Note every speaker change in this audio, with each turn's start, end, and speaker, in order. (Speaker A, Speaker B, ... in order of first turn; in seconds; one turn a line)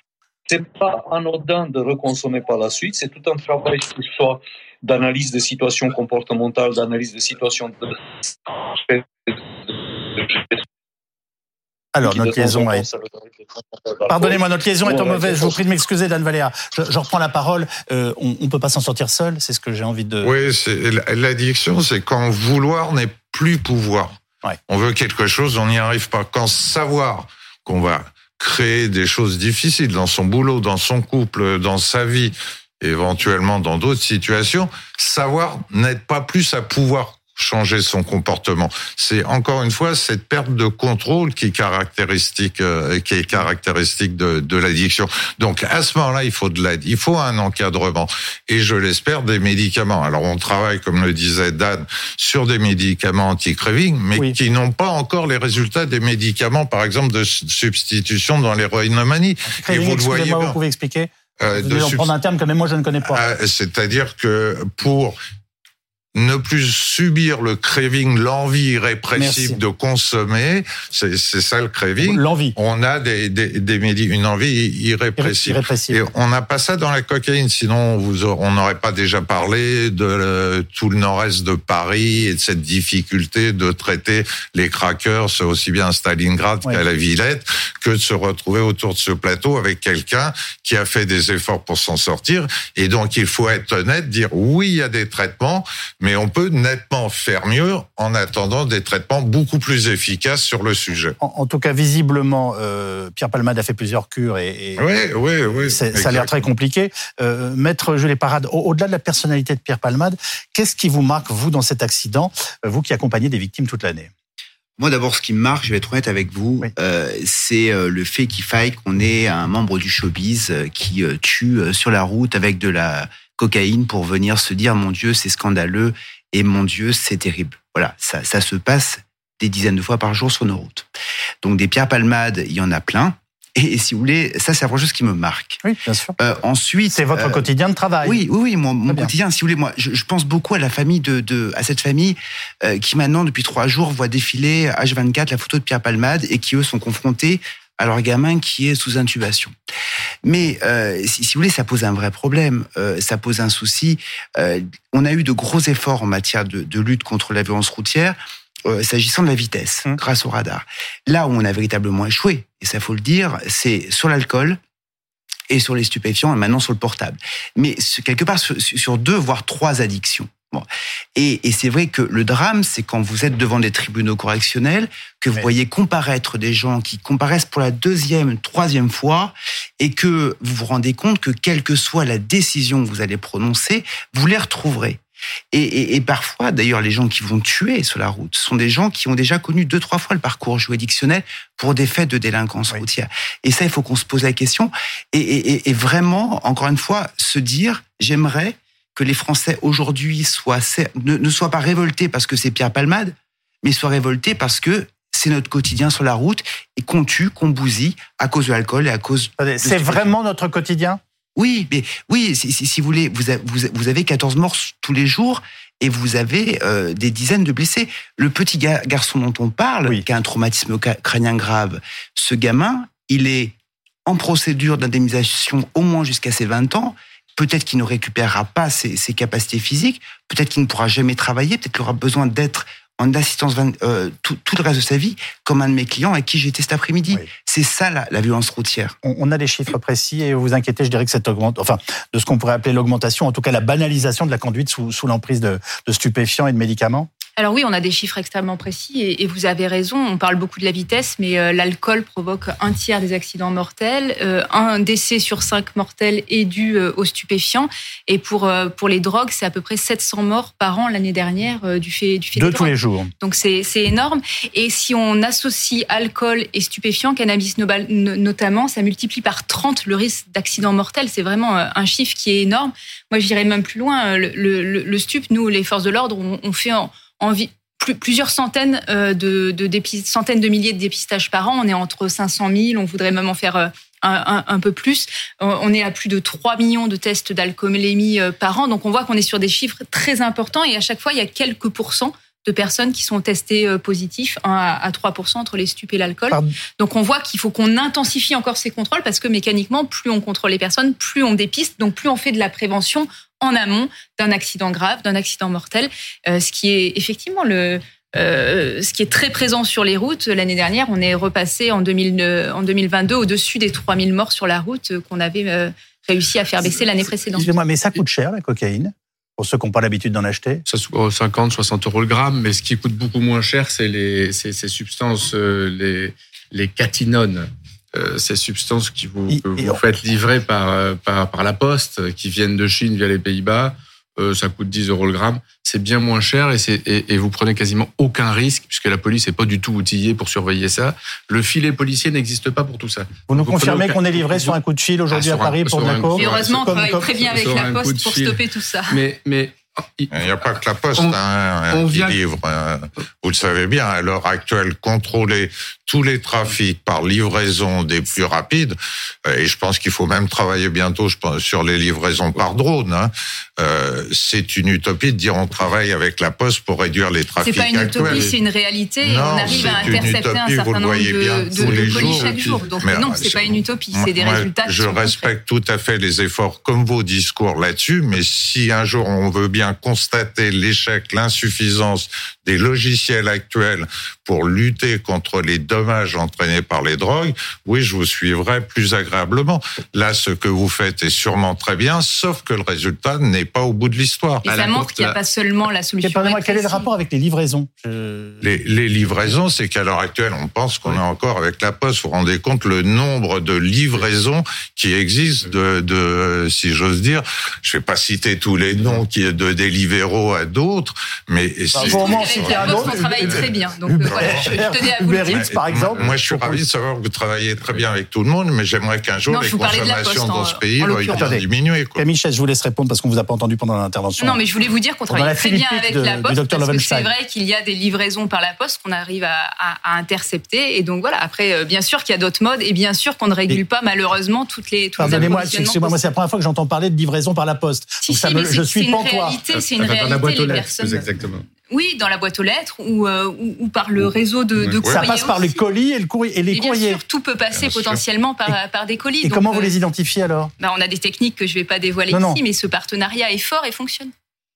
Speaker A: 0.5-10.6
Speaker B: 11.9-12.8
Speaker A: 12.0-15.6
Speaker B: 14.1-20.3
Speaker C: 20.2-60.6
Speaker B: 59.6-63.2
Speaker C: 61.4-62.1
Speaker C: 63.1-65.2
Speaker C: 66.2-101.2
Speaker B: 69.2-69.6
Speaker B: 72.0-72.5
Speaker B: 75.2-76.0
Speaker B: 101.2-104.8
Speaker C: 104.8-106.4
Speaker B: 105.6-114.1
Speaker D: 114.8-130.9
Speaker D: 131.4-135.6
Speaker B: 135.6-136.2
Speaker D: 136.2-137.5
Speaker B: 136.9-138.2
Speaker D: 138.0-149.5
Speaker B: 138.9-139.1
Speaker D: 150.2-164.6
Speaker D: 165.5-185.0
Speaker D: 185.5-210.1
Speaker B: 209.4-211.0
Speaker D: 211.4-223.5
Speaker D: 224.1-239.0
Speaker B: 239.0-247.1
Speaker E: 247.4-317.5
Speaker B: 262.4-263.1
Speaker B: 316.7-320.6
Speaker F: 320.7-344.6
Speaker B: 329.3-329.8
Speaker B: 343.3-347.1
Speaker F: 345.1-350.3
Speaker E: 346.1-349.0
Speaker C: 350.1-368.3
Speaker F: 351.7-352.2
Speaker E: 367.4-375.3
Speaker F: 368.0-368.3
Speaker C: 369.0-395.1
Speaker F: 369.4-370.2
Speaker F: 371.5-373.2
Speaker E: 394.4-396.9
Speaker B: 396.0-398.4
Speaker C: 398.4-413.4
Speaker B: 411.7-416.6
Speaker E: 411.8-415.6
Speaker C: 414.1-414.7
Speaker C: 415.2-422.0
Speaker E: 419.3-421.4
Speaker B: 421.1-421.4
Speaker B: 422.0-424.4
Speaker E: 424.2-436.0
Speaker B: 425.1-427.1
Speaker B: 435.0-439.4
Speaker F: 435.0-435.4
Speaker E: 438.0-441.1
Speaker F: 439.6-441.5
Speaker E: 441.7-445.6
Speaker B: 444.9-447.0
Speaker E: 446.5-449.7
Speaker C: 447.6-448.0
Speaker B: 449.2-450.5
Speaker E: 450.6-454.1
Speaker B: 452.1-452.4